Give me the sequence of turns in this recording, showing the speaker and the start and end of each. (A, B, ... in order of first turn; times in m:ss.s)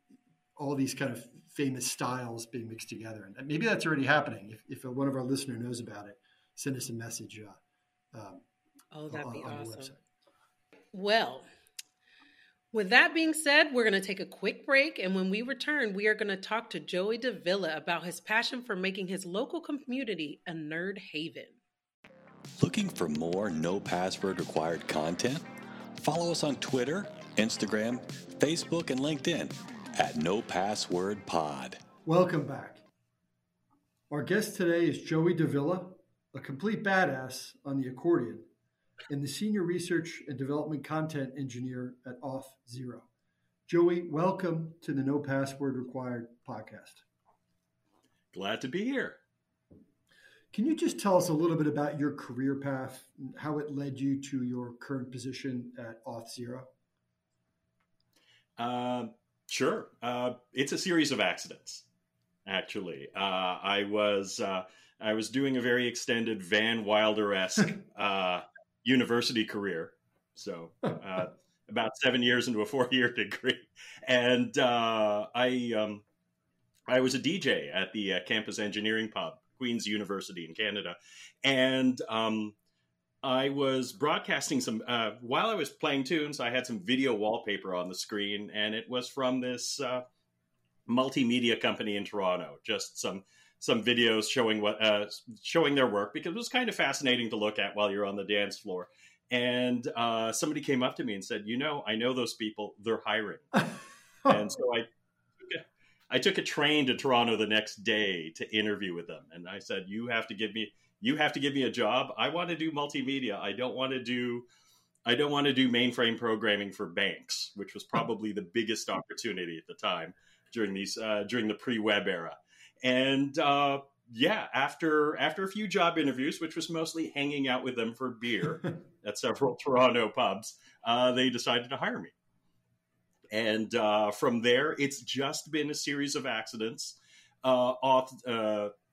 0:00.6-0:07.6 A
0:08.1-0:08.4 A
0:08.9-0:09.9 B
0:09.1-0:10.0 A
0:10.9-0:11.5 B
0:12.7-0:21.6 B
0:22.6-0:25.4 C
0:26.0-0:31.8 C
0:32.0-0:32.8 A
0:34.1-0:38.5 A
0:39.1-0:43.1 A
0:43.7-0:47.0 A
0:48.3-0:49.2 D
0:50.5-0:56.7 A
0:58.6-1:01.8 D
1:02.4-1:16.0 D
1:16.9-1:22.5 D
1:23.2-1:30.0 D
1:30.9-1:43.6 D
1:44.3-1:44.8 D
1:45.4-1:54.4 D
1:55.0-2:12.1 D
2:13.3-2:18.7 D